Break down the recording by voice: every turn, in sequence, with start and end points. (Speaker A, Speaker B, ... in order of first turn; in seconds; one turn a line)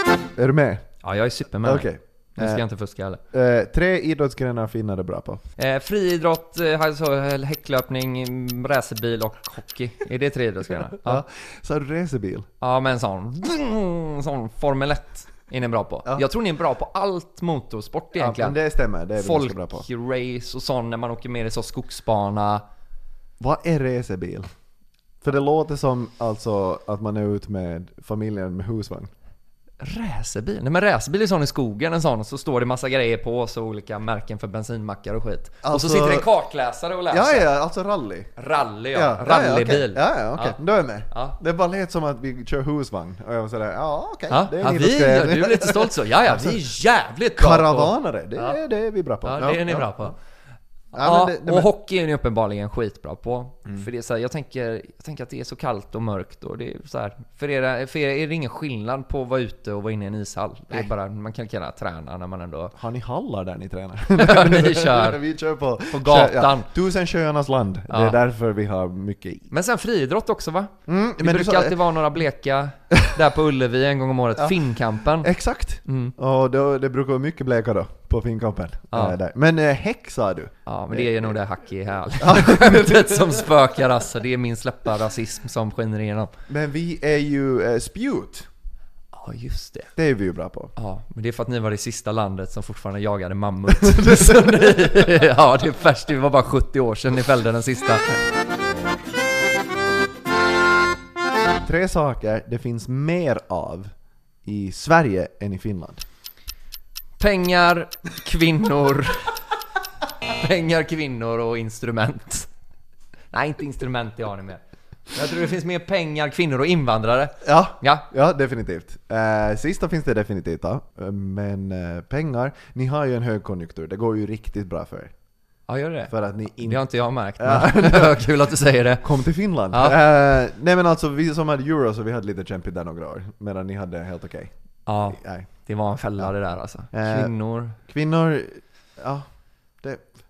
Speaker A: 0.3-0.9
Speaker B: 1.0-3.2
Speaker A: 1.6-2.6
Speaker A: 3.3-5.4
Speaker B: 5.6-11.2
Speaker A: 10.9-12.5
Speaker B: 12.6-18.6
Speaker A: 18.1-19.8
Speaker B: 19.2-22.6
Speaker A: 23.4-24.4
Speaker A: 25.2-29.1
Speaker B: 29.8-37.5
Speaker A: 35.6-36.3
Speaker A: 37.1-38.3
Speaker B: 38.4-40.6
Speaker A: 38.9-46.6
Speaker B: 41.1-41.4
Speaker B: 44.3-48.6
Speaker A: 47.4-50.1
Speaker B: 49.2-50.1
Speaker A: 50.9-51.7
Speaker B: 51.0-62.7
Speaker A: 62.7-69.5
Speaker B: 64.1-65.2
Speaker B: 65.9-66.7
Speaker B: 67.9-68.2
Speaker B: 69.5-75.3
Speaker A: 70.9-71.8
Speaker A: 75.2-81.3
Speaker B: 75.8-76.1
Speaker B: 78.9-79.2
Speaker B: 80.7-86.3
Speaker A: 82.2-83.6
Speaker A: 86.5-88.5
Speaker B: 89.1-89.9
Speaker A: 90.0-90.7
Speaker B: 90.8-98.1
Speaker A: 93.7-95.1
Speaker A: 101.6-103.9
Speaker A: 104.4-106.0
Speaker B: 107.2-109.3
Speaker B: 110.3-112.5
Speaker B: 113.3-118.0
Speaker A: 117.4-125.1
Speaker B: 125.7-129.1
Speaker A: 126.1-126.8
Speaker A: 127.4-128.3
Speaker A: 129.0-134.5
Speaker B: 129.7-130.0
Speaker B: 134.8-137.8
Speaker A: 135.0-135.5
Speaker A: 136.9-139.2
Speaker A: 139.8-140.1